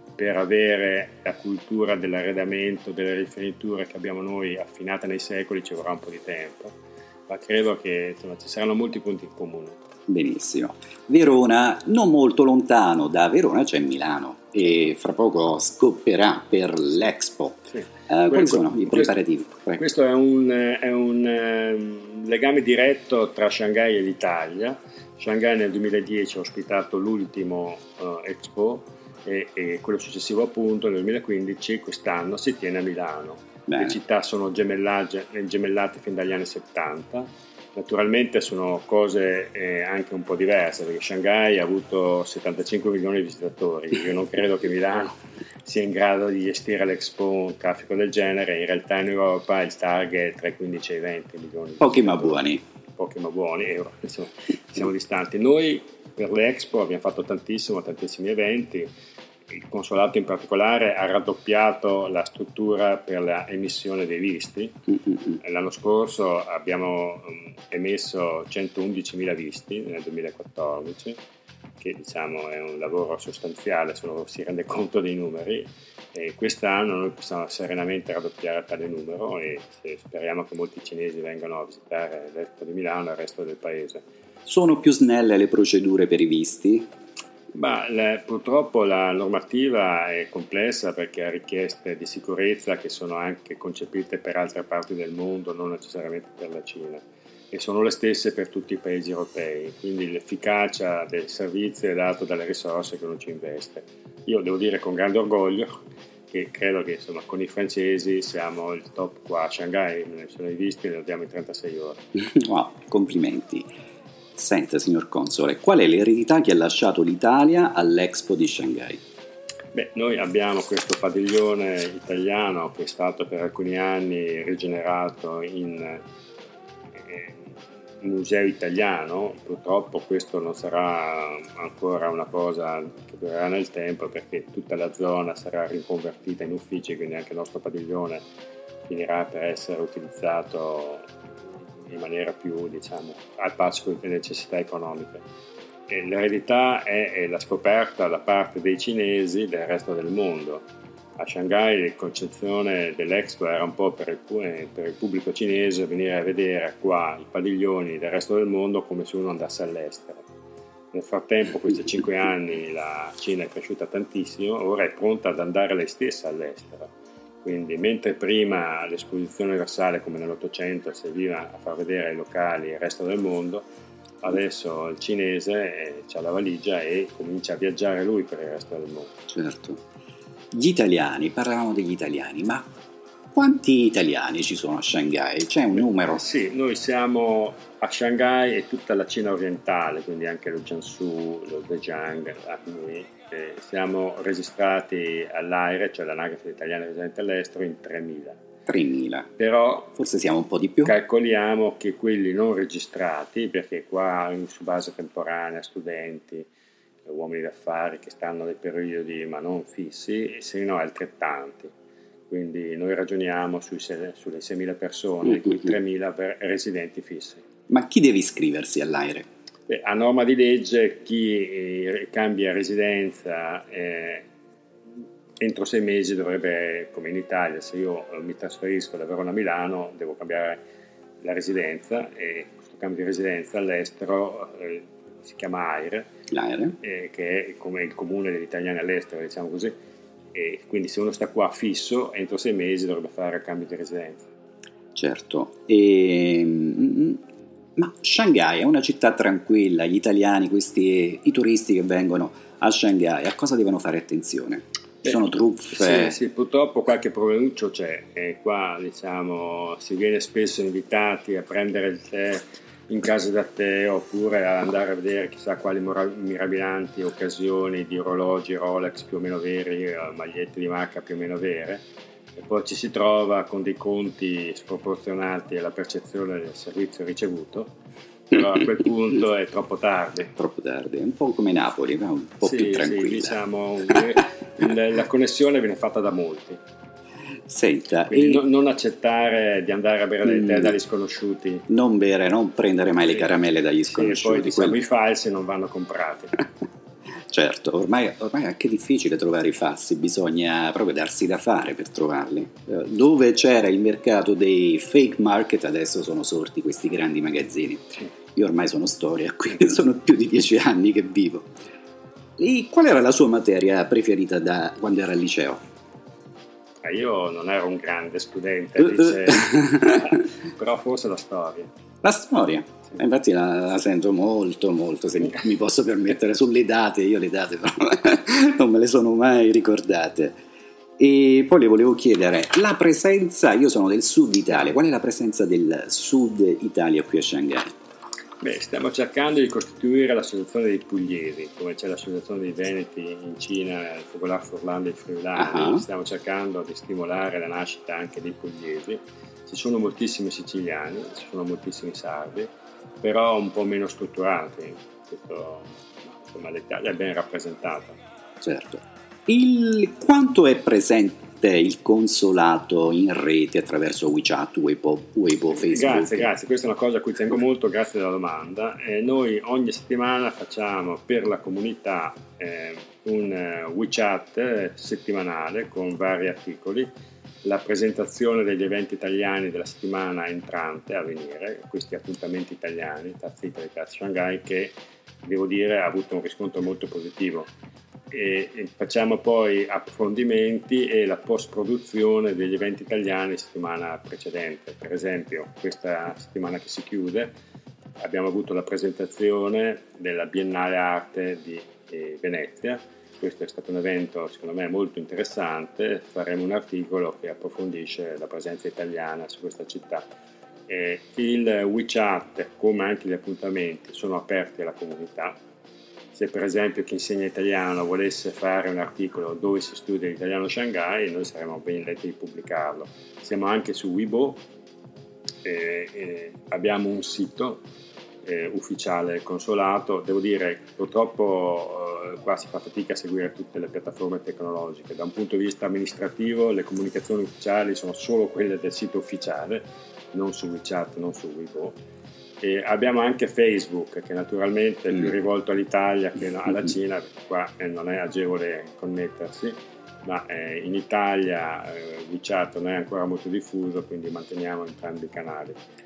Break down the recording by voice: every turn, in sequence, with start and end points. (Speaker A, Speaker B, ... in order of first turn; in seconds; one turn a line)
Speaker A: 0.2-9.8
Speaker B: 10.1-19.8
Speaker A: 17.7-19.2
Speaker A: 19.8-52.5
Speaker B: 33.7-34.0
Speaker B: 51.8-52.6
Speaker A: 53.0-58.9
Speaker A: 59.5-71.2
Speaker A: 71.8-84.0
Speaker B: 84.5-86.9
Speaker A: 87.5-105.8
Speaker A: 106.3-112.0
Speaker B: 112.3-113.7
Speaker B: 114.4-119.0
Speaker A: 119.7-126.0
Speaker A: 127.0-138.2
Speaker A: 138.9-141.1
Speaker A: 141.7-145.2
Speaker A: 145.9-150.7
Speaker A: 151.2-160.2
Speaker A: 160.9-166.9
Speaker A: 167.4-173.7
Speaker A: 174.2-179.1
Speaker B: 179.3-179.8
Speaker B: 180.5-182.7
Speaker B: 183.3-186.2
Speaker A: 185.8-198.4
Speaker B: 198.7-199.3
Speaker A: 199.4-199.9
Speaker B: 200.0-200.9
Speaker A: 200.8-206.5
Speaker A: 207.1-211.7
Speaker A: 212.3-217.4
Speaker B: 217.7-219.3
Speaker A: 219.7-224.3
Speaker A: 225.4-230.6
Speaker A: 231.2-236.1
Speaker B: 236.3-236.8
Speaker A: 236.8-239.7
Speaker A: 240.3-244.3
Speaker B: 244.9-247.2
Speaker B: 247.8-256.2
Speaker A: 255.7-271.9
Speaker A: 272.4-277.7
Speaker A: 278.3-280.3
Speaker B: 280.4-283.4
Speaker A: 282.4-286.6
Speaker B: 287.5-288.4
Speaker A: 288.1-291.6
Speaker B: 290.2-290.7
Speaker B: 291.7-294.8
Speaker A: 293.1-293.3
Speaker A: 293.9-296.5
Speaker B: 297.3-311.5
Speaker B: 312.4-315.6
Speaker A: 316.8-321.7
Speaker B: 319.0-320.1
Speaker B: 322.0-330.4
Speaker B: 331.0-337.7
Speaker A: 338.4-358.0
Speaker B: 345.4-345.8
Speaker B: 358.4-366.3
Speaker A: 365.5-376.9
Speaker A: 377.4-387.5
Speaker A: 388.1-397.3
Speaker A: 398.0-410.1
Speaker A: 410.7-415.4
Speaker A: 416.1-424.4
Speaker A: 425.4-427.6
Speaker A: 428.2-441.8
Speaker A: 442.4-455.6